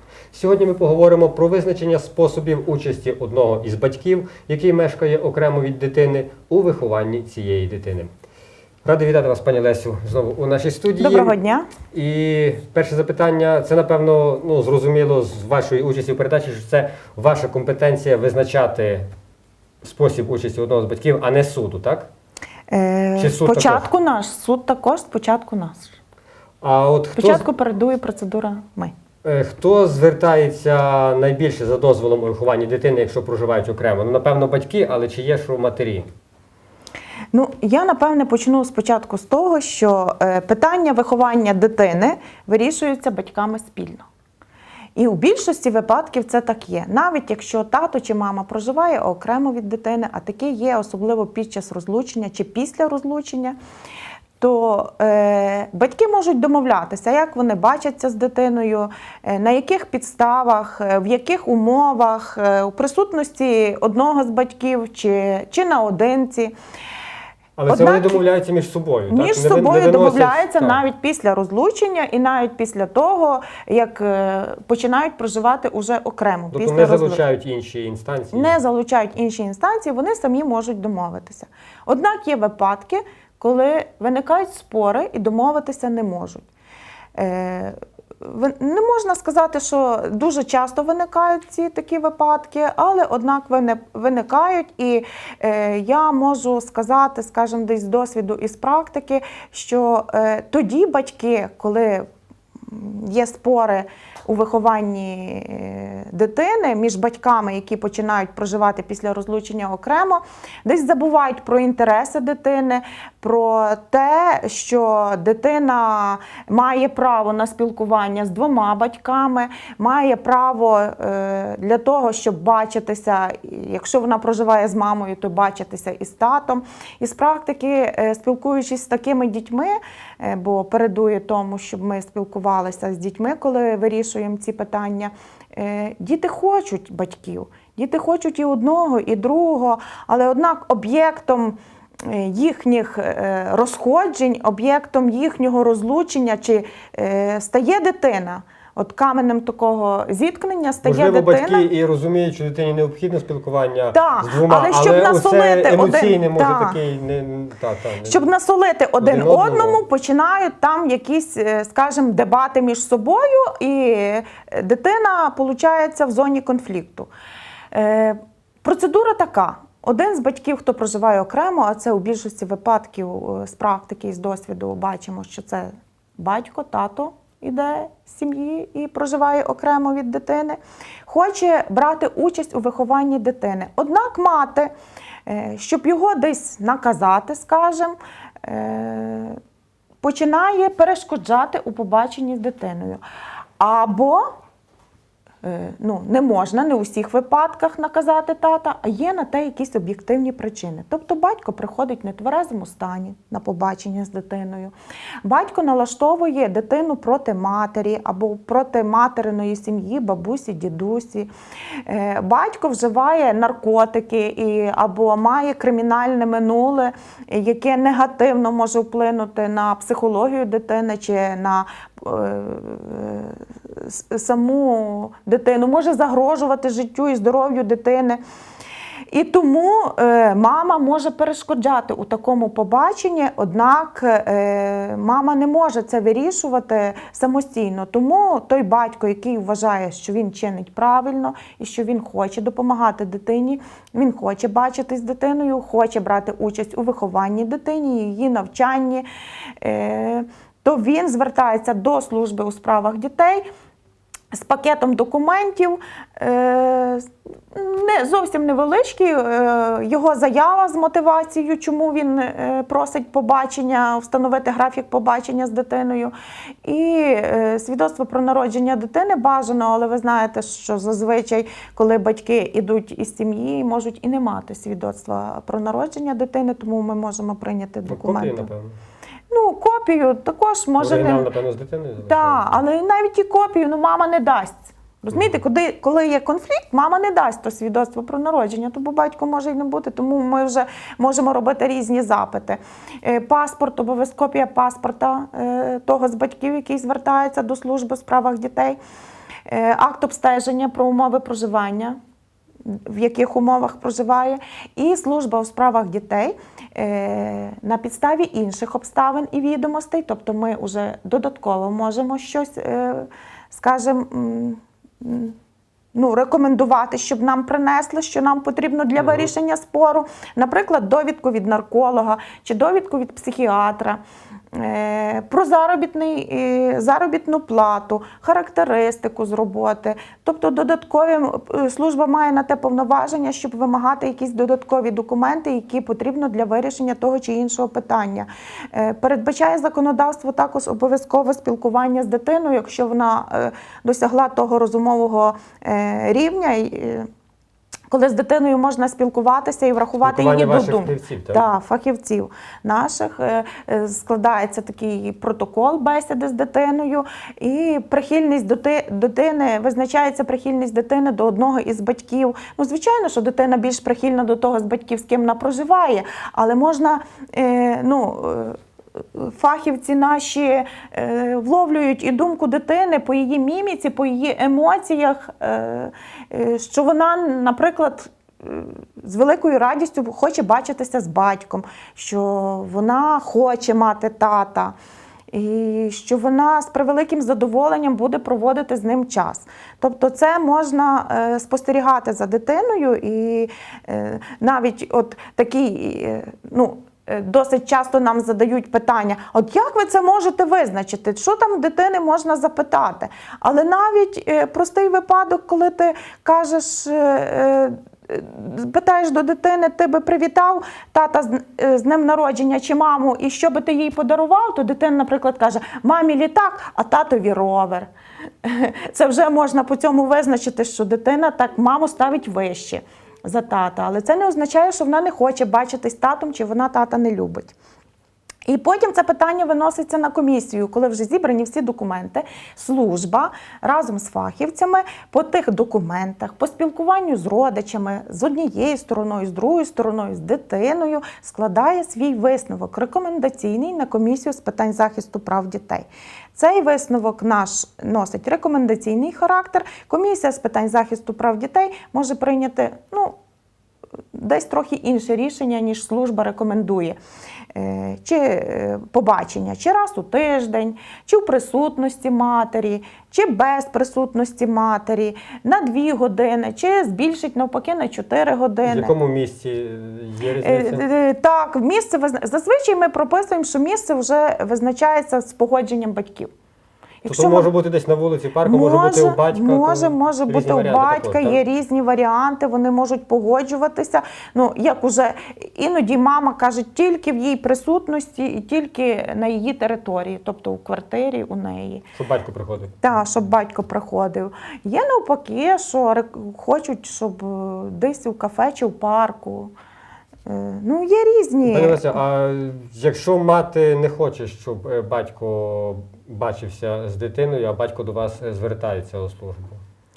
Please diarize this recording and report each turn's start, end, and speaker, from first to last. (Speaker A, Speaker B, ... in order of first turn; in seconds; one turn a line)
Speaker A: 0.3-8.1
Speaker A: 8.8-11.3
Speaker B: 11.0-11.7
Speaker A: 11.9-19.1
Speaker A: 19.8-22.1
Speaker B: 22.7-25.9
Speaker A: 23.2-23.9
Speaker A: 26.6-27.4
Speaker B: 27.1-28.9
Speaker A: 29.2-36.1
Speaker B: 37.3-44.0
Speaker B: 45.0-53.5
Speaker B: 54.4-66.5
Speaker A: 67.6-70.8
Speaker B: 67.7-68.2
Speaker B: 69.1-77.2
Speaker A: 76.5-78.5
Speaker B: 78.3-86.4
Speaker B: 87.2-102.0
Speaker B: 102.7-151.7
Speaker A: 150.8-158.2
Speaker B: 153.9-156.8
Speaker B: 158.1-167.1
Speaker A: 159.0-159.8
Speaker B: 167.7-184.7
Speaker B: 185.2-189.4
Speaker B: 190.0-193.0
Speaker B: 193.6-194.2
Speaker B: 195.4-204.7
Speaker B: 205.2-211.3
Speaker B: 211.8-228.2
Speaker B: 229.1-249.1
Speaker B: 249.6-253.4
Speaker B: 254.3-266.1
Speaker B: 266.6-278.5
Speaker A: 277.9-278.8
Speaker B: 279.3-281.3
Speaker A: 280.8-282.6
Speaker B: 282.0-298.8
Speaker B: 299.5-302.0
Speaker B: 302.6-315.4
Speaker B: 315.9-324.0
Speaker A: 319.0-319.3
Speaker B: 324.5-347.1
Speaker B: 347.9-368.6
Speaker A: 350.0-351.4
Speaker B: 369.1-384.7
Speaker B: 385.3-417.9
Speaker B: 418.4-427.5
Speaker B: 428.5-453.1
Speaker B: 454.1-457.0
Speaker B: 457.5-468.9
Speaker A: 468.6-470.8
Speaker B: 470.4-476.3
Speaker B: 477.0-477.5
Speaker A: 477.1-481.4
Speaker B: 478.4-491.9
Speaker A: 491.9-492.9
Speaker B: 492.8-499.5
Speaker B: 500.2-501.9
Speaker A: 501.4-509.6